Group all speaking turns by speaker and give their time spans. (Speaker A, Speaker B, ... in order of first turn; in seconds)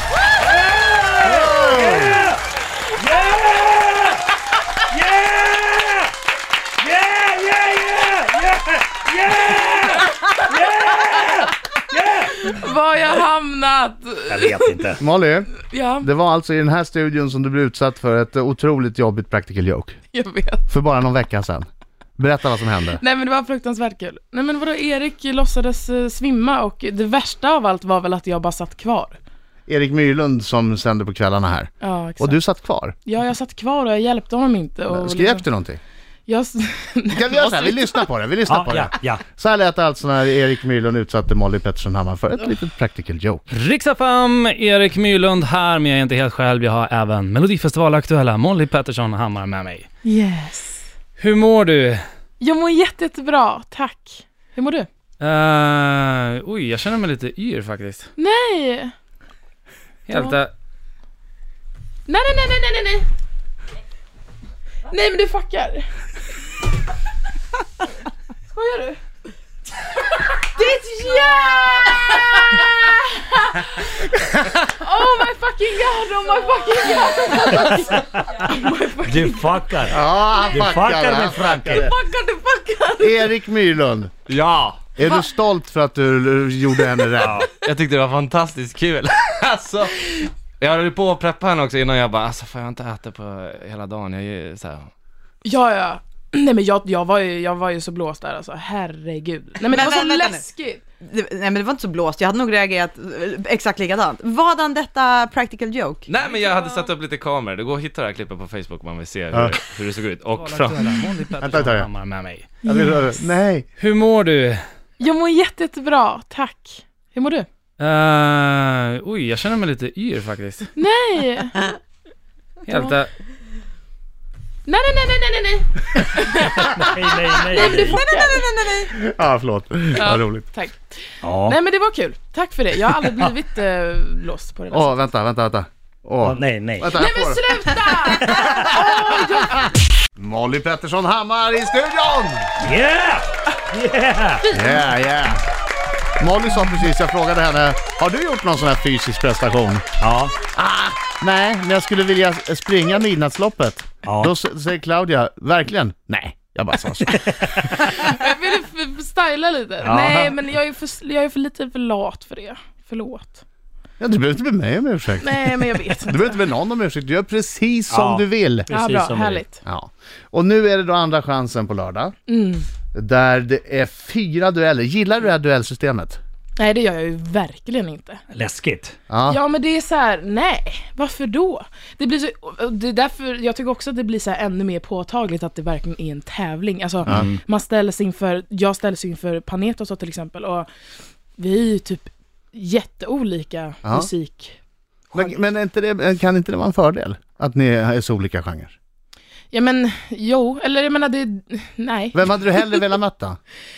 Speaker A: 0.5-2.4, 3.0-4.2, 4.9-6.1, 6.8-12.5, 14.3-15.0, 38.5-39.2, 79.0-81.9, 87.2-87.5, 126.3-128.1, 131.2-131.6, 136.2-136.9, 138.0-138.8, 142.6-144.4, 150.0-150.3, 154.0-154.3, 159.8-160.3, 167.9-169.4, 178.3-178.9, 187.0-187.4
Speaker B: 1.2-2.1, 15.0-20.0, 20.7-21.7, 22.2-23.0, 29.7-33.0, 34.9-35.8, 37.1-43.4, 79.9-81.9, 83.0-84.1, 85.0-87.5, 109.3-109.6, 110.5-111.9, 112.6-113.7, 129.0-130.4, 134.7-137.5, 138.2-139.6, 140.2-142.5, 144.5-145.4, 146.2-149.8, 150.5-157.2, 164.0-168.7, 169.6-172.1, 172.9-176.2, 179.1-179.4, 195.1-198.7, 202.1-203.4
Speaker C: 12.3-14.9, 15.7-16.1, 20.1-20.7, 23.0-29.2, 31.8-32.4, 33.0-35.5, 36.3-38.0, 50.0-50.8, 52.4-54.9, 58.2-58.9, 60.1-60.4, 62.1-63.0, 64.9-65.9, 68.5-69.0, 70.1-73.9, 74.7-79.8, 81.7-83.2, 95.4-100.8, 112.6-113.2, 115.0-117.5, 120.8-121.7, 122.7-123.0, 124.7-128.8, 129.9-130.8, 131.4-135.0, 136.9-139.7, 144.4-144.9, 157.7-163.4, 165.2-166.4, 168.7-169.6, 172.3-172.7, 176.6-178.2, 179.3-190.7, 191.4-194.6, 199.5-202.8
Speaker D: 43.5-49.9, 51.2-52.0, 55.2-58.1, 60.1-60.5, 110.3-112.5, 113.8-114.6, 117.8-120.7, 122.7-123.1
Speaker E: 84.3-84.9, 87.6-94.9, 106.1-110.4
Speaker F: 99.7-100.4, 101.0-106.8, 127.5-128.9